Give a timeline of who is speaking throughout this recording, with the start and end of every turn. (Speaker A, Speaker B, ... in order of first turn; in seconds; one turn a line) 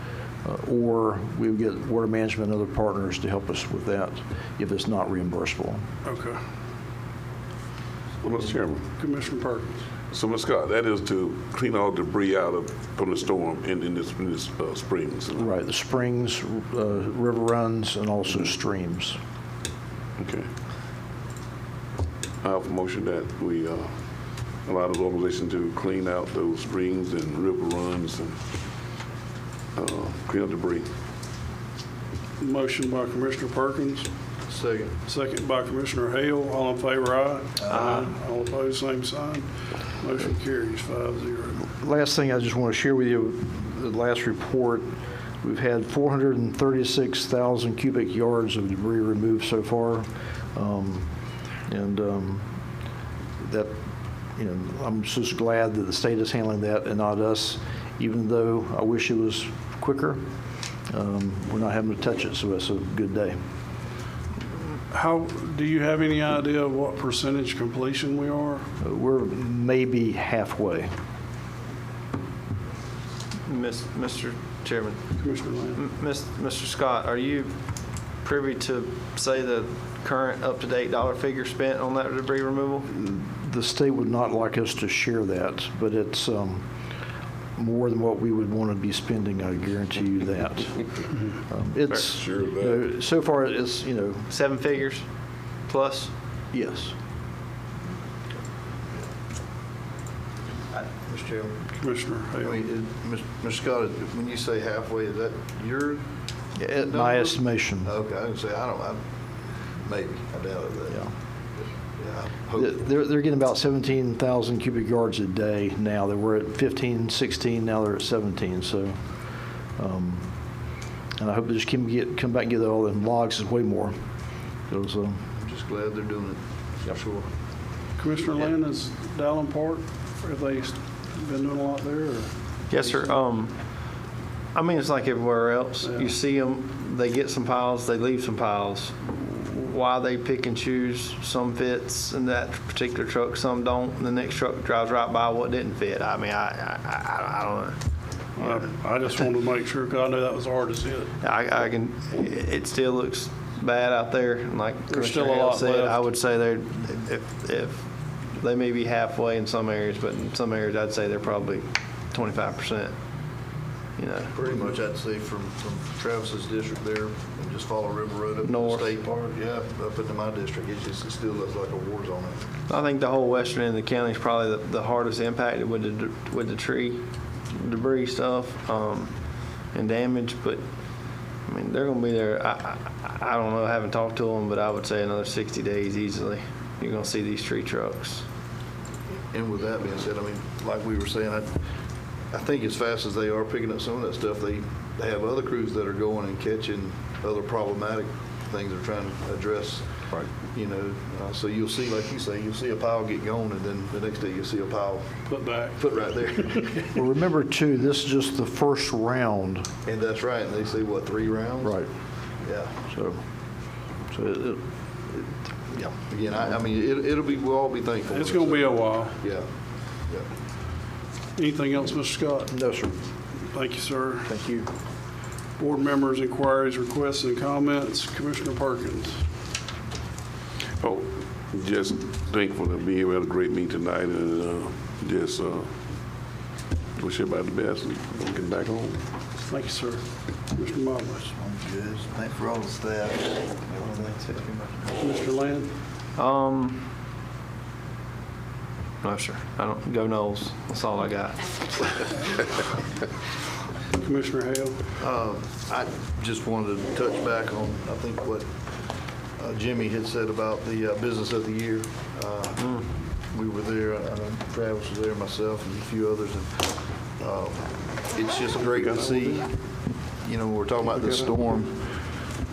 Speaker A: 0.4-5.8
Speaker B: 6.0-6.4
Speaker C: 8.2-8.9
Speaker B: 9.0-9.8
Speaker C: 10.1-15.5
Speaker A: 15.3-19.2
Speaker C: 20.2-20.5
Speaker C: 22.4-23.9
Speaker C: 24.6-28.4
Speaker C: 29.8-30.9
Speaker B: 32.4-34.1
Speaker D: 34.5-34.9
Speaker B: 35.0-39.5
Speaker D: 37.6-38.0
Speaker B: 40.0-41.6
Speaker A: 41.6-44.9
Speaker A: 45.4-51.1
Speaker A: 51.7-52.5
Speaker A: 53.4-53.7
Speaker A: 54.4-60.2
Speaker A: 60.9-63.4
Speaker B: 64.9-68.7
Speaker A: 68.8-70.9
Speaker E: 73.5-75.2
Speaker B: 75.2-75.8
Speaker E: 75.7-77.5
Speaker E: 78.2-82.9
Speaker A: 82.9-86.7
Speaker A: 87.5-94.3
Speaker C: 92.1-92.8
Speaker E: 94.3-95.1
Speaker E: 95.7-96.1
Speaker A: 96.5-96.9
Speaker D: 100.7-101.6
Speaker B: 101.8-102.6
Speaker D: 102.4-106.0
Speaker A: 106.6-107.9
Speaker D: 106.8-109.0
Speaker D: 109.8-111.0
Speaker D: 112.0-112.7
Speaker A: 112.5-119.0
Speaker A: 119.8-120.3
Speaker A: 121.2-123.9
Speaker A: 124.7-125.2
Speaker D: 125.3-127.3
Speaker B: 128.0-133.1
Speaker E: 132.7-133.6
Speaker E: 134.5-147.8
Speaker B: 135.8-136.1
Speaker B: 148.3-151.1
Speaker E: 151.2-157.8
Speaker B: 154.9-156.1
Speaker E: 158.3-162.9
Speaker E: 164.0-164.3
Speaker D: 164.3-172.4
Speaker E: 168.4-169.0
Speaker E: 172.7-179.1
Speaker E: 179.7-180.6
Speaker E: 181.4-188.2
Speaker D: 189.3-191.5
Speaker D: 192.3-205.2
Speaker B: 205.3-206.7
Speaker D: 205.8-206.9
Speaker A: 206.9-209.7
Speaker D: 209.8-211.8
Speaker A: 211.6-211.9
Speaker D: 212.4-212.8
Speaker A: 212.9-213.2
Speaker A: 214.1-216.0
Speaker D: 216.1-219.5
Speaker B: 218.1-219.2
Speaker B: 221.3-222.5
Speaker A: 222.5-223.0
Speaker B: 223.5-224.3
Speaker A: 224.2-224.7
Speaker B: 225.6-229.2
Speaker C: 230.8-235.7
Speaker C: 237.0-239.0
Speaker B: 239.5-241.3
Speaker D: 241.3-245.0
Speaker B: 245.0-245.7
Speaker E: 246.2-246.9
Speaker E: 249.0-251.4
Speaker B: 253.9-254.8
Speaker D: 255.0-258.4
Speaker D: 259.4-269.5
Speaker D: 270.2-272.0